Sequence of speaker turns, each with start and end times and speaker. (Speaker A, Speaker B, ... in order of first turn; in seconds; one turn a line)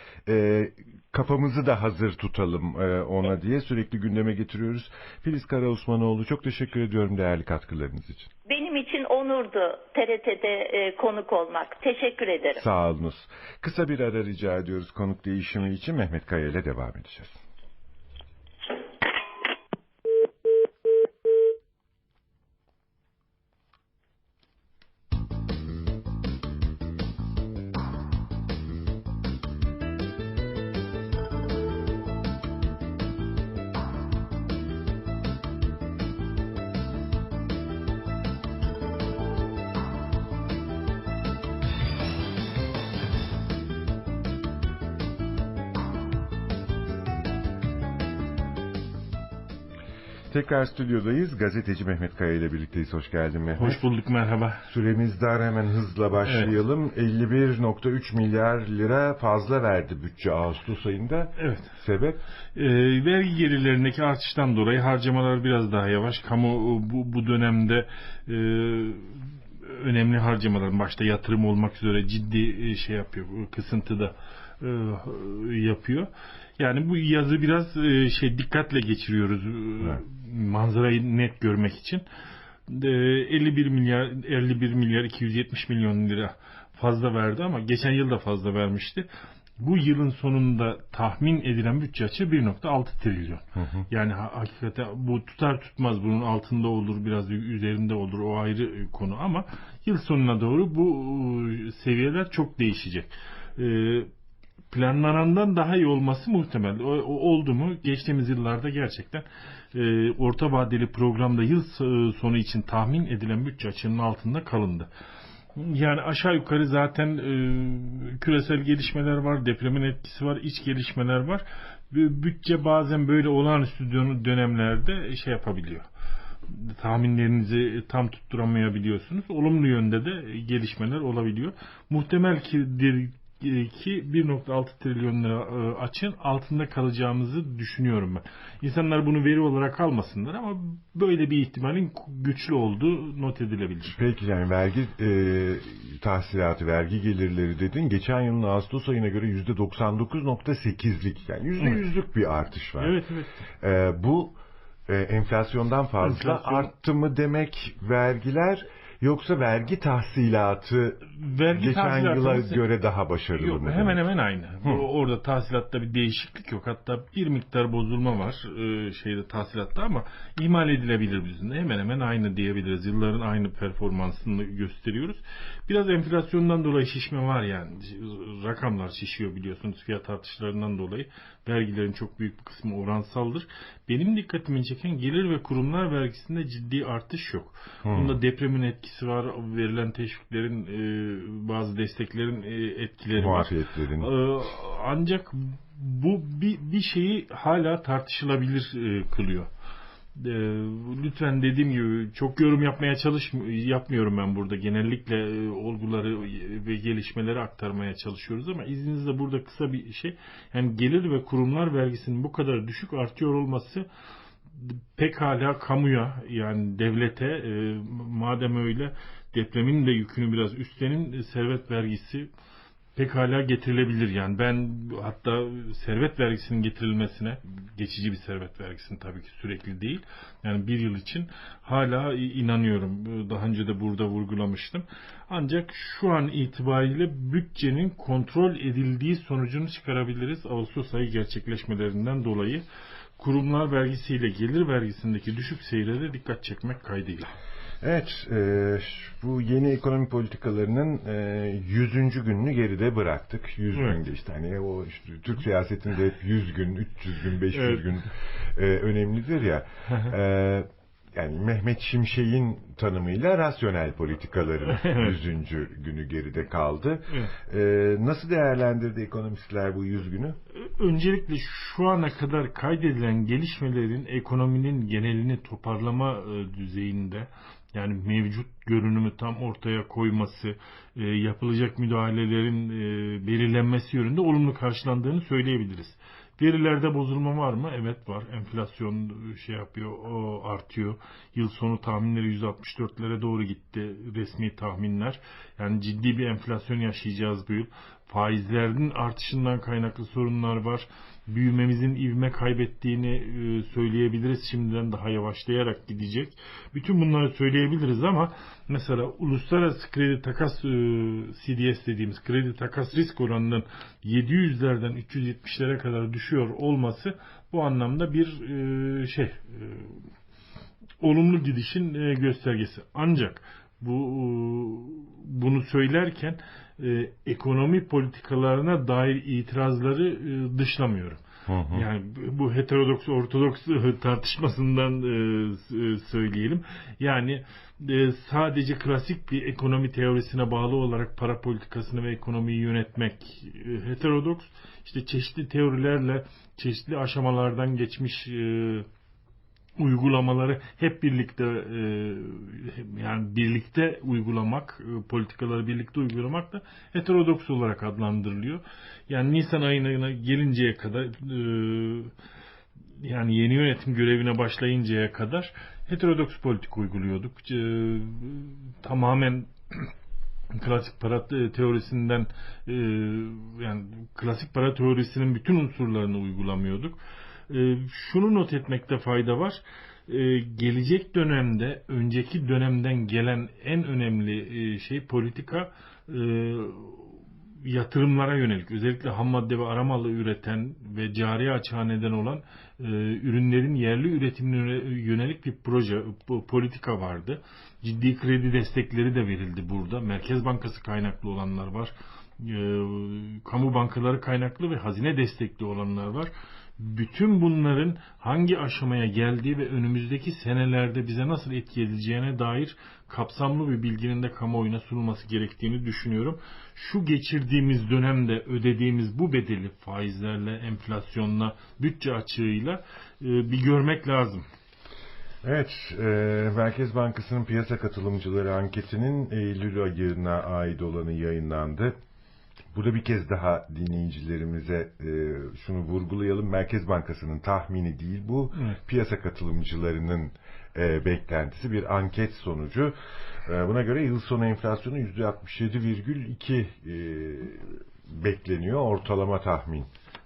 Speaker A: 0.2-8.3
Speaker B: 8.4-12.6
Speaker A: 12.6-17.4
Speaker A: 50.3-53.8
Speaker C: 53.6-54.6
Speaker A: 54.7-62.2
Speaker C: 56.2-56.5
Speaker C: 61.4-61.7
Speaker C: 62.5-82.0
Speaker C: 82.7-89.1
Speaker C: 89.6-104.1
Speaker A: 93.6-93.8
Speaker C: 104.7-114.9
Speaker C: 115.5-125.8
Speaker C: 126.5-144.0
Speaker A: 143.9-152.9
Speaker C: 152.8-153.4
Speaker A: 153.6-154.3
Speaker A: 154.9-164.0
Speaker C: 156.0-156.7
Speaker C: 161.2-162.6
Speaker C: 163.3-199.5
Speaker A: 187.8-188.2
Speaker A: 193.2-194.1
Speaker C: 200.2-213.8
Speaker C: 214.6-222.3
Speaker C: 222.9-242.6
Speaker C: 243.2-247.3
Speaker A: 247.8-270.4
Speaker C: 257.5-257.8
Speaker C: 264.8-265.1
Speaker C: 270.5-320.1
Speaker C: 321.0-348.9
Speaker A: 331.5-331.9
Speaker C: 349.8-362.1
Speaker C: 363.0-369.9
Speaker C: 370.5-377.0
Speaker C: 377.5-424.4
Speaker A: 425.4-431.9
Speaker A: 432.7-442.9
Speaker A: 443.4-449.9